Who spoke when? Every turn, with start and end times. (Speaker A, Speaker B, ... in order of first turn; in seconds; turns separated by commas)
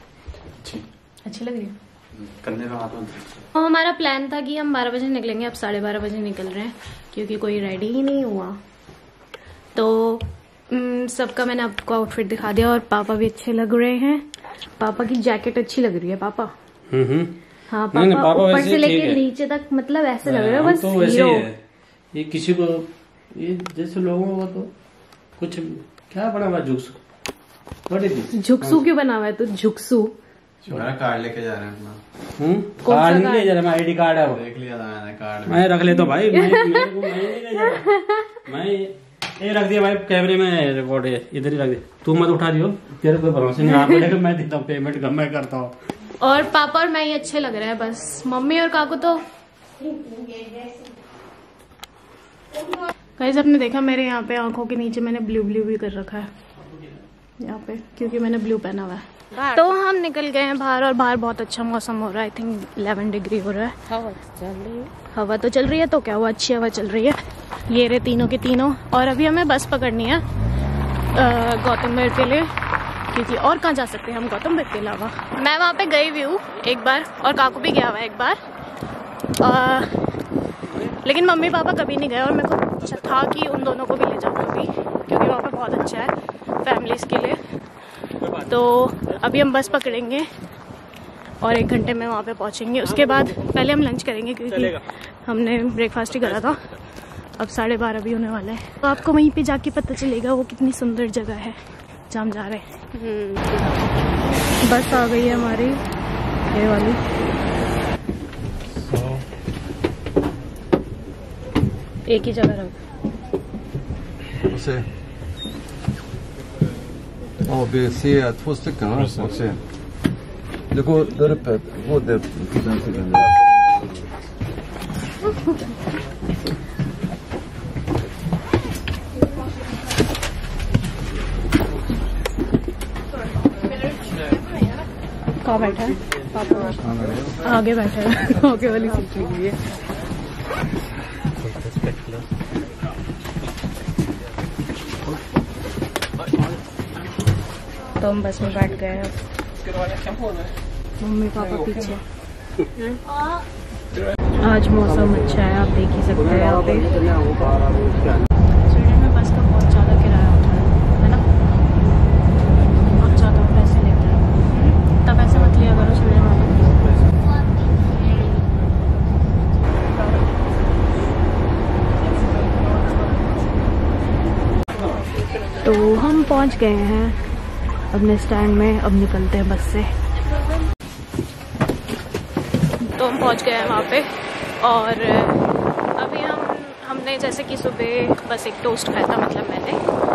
Speaker A: 0.6-0.8, Speaker B: 1.2-1.7, Speaker A: 2.1-3.4, Speaker B: 3.5-8.6, Speaker B: 9.7-14.2, Speaker B: 14.8-16.5, Speaker C: 16.9-17.3, Speaker B: 17.7-21.5, Speaker C: 17.9-19.2, Speaker C: 20.2-21.6, Speaker C: 22.1-24.7, Speaker C: 25.4-27.0, Speaker C: 27.9-28.8, Speaker B: 28.3-30.1, Speaker A: 30.6-32.0, Speaker C: 32.4-34.4, Speaker B: 32.8-33.5, Speaker A: 34.2-35.7, Speaker C: 35.5-45.7, Speaker B: 36.3-36.9, Speaker B: 37.8-38.2, Speaker B: 43.7-44.0, Speaker B: 46.2-49.2, Speaker B: 53.2-56.3, Speaker B: 57.4-63.7, Speaker D: 59.3-59.8, Speaker D: 63.9-64.9, Speaker B: 65.1-70.2, Speaker B: 71.1-72.5, Speaker B: 73.1-78.4, Speaker B: 79.4-79.9, Speaker B: 80.8-87.4, Speaker B: 88.3-90.3, Speaker B: 91.4-96.7, Speaker B: 97.4-101.6, Speaker B: 102.1-102.7, Speaker D: 102.9-103.6, Speaker B: 104.6-105.8, Speaker B: 106.5-107.0, Speaker B: 112.1-112.8, Speaker E: 114.5-114.8, Speaker E: 117.4-119.6, Speaker E: 120.7-124.0, Speaker B: 135.4-136.7, Speaker A: 136.8-137.3, Speaker B: 137.4-139.4, Speaker D: 139.2-139.5, Speaker C: 141.4-142.2, Speaker B: 148.0-149.2, Speaker B: 151.0-152.0, Speaker B: 154.4-156.9, Speaker C: 155.0-155.4, Speaker C: 156.2-158.2, Speaker B: 158.5-161.2, Speaker B: 162.9-164.4, Speaker B: 165.0-166.7, Speaker B: 175.6-177.2, Speaker B: 177.9-179.9, Speaker B: 182.8-184.1, Speaker B: 184.6-185.4, Speaker B: 186.0-189.8